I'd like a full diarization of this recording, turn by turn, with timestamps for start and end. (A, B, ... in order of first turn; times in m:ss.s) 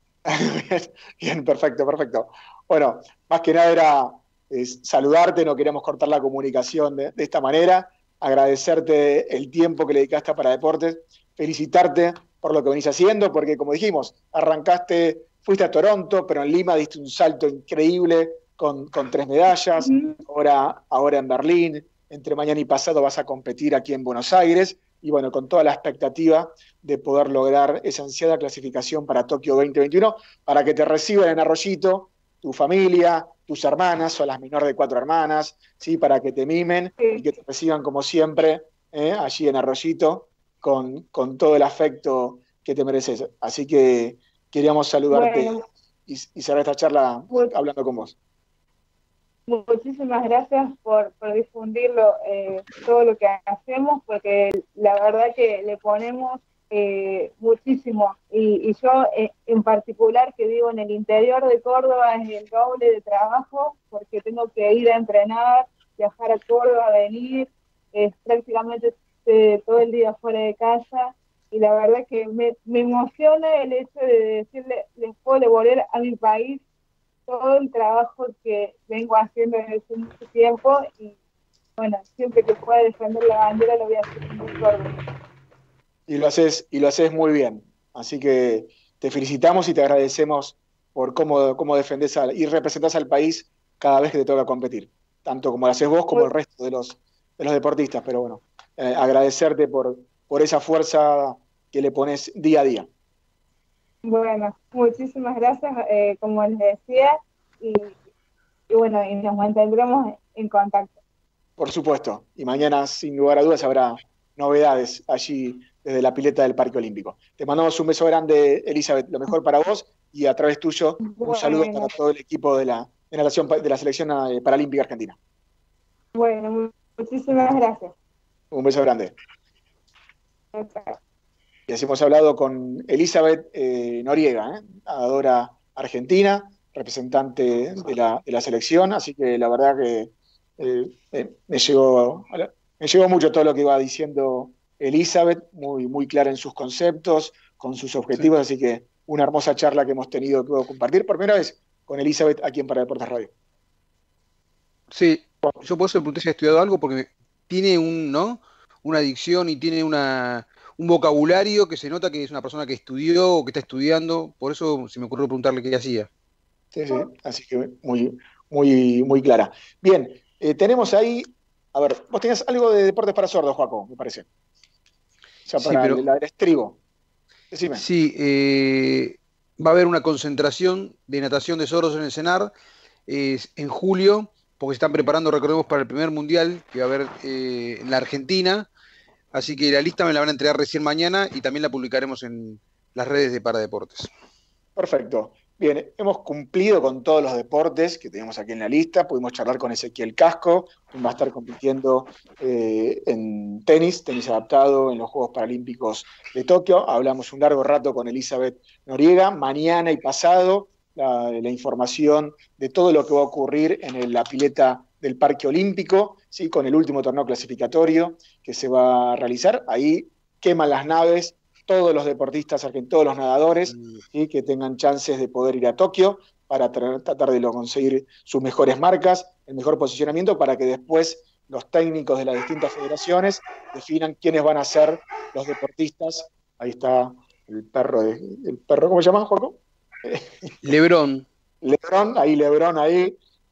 0:00.3-0:48.2 A
0:19.8-0:20.2 B
0:37.0-0:37.3 B
0:45.1-0:45.6 B
0:49.5-1:16.6 B
1:17.3-1:21.2 B
1:21.8-1:24.9 B
1:26.1-1:42.9 A
1:44.0-1:48.0 B
1:48.7-1:51.0 B
1:51.6-2:05.2 A
2:01.0-2:02.0 B
2:06.2-2:07.9 B
2:08.5-2:09.2 A
2:10.5-2:11.0 B
2:11.7-2:33.3 A
2:34.9-2:46.1 C
2:46.7-2:54.3 A
2:55.5-2:56.8 A
2:55.6-2:56.0 C
2:57.5-2:57.8 A
2:57.7-3:02.5 C
3:03.1-3:08.7 C
3:09.3-3:14.1 C
3:14.8-4:00.5 A
3:43.7-3:44.0 C
4:00.6-4:01.3 C
4:01.6-4:03.2 A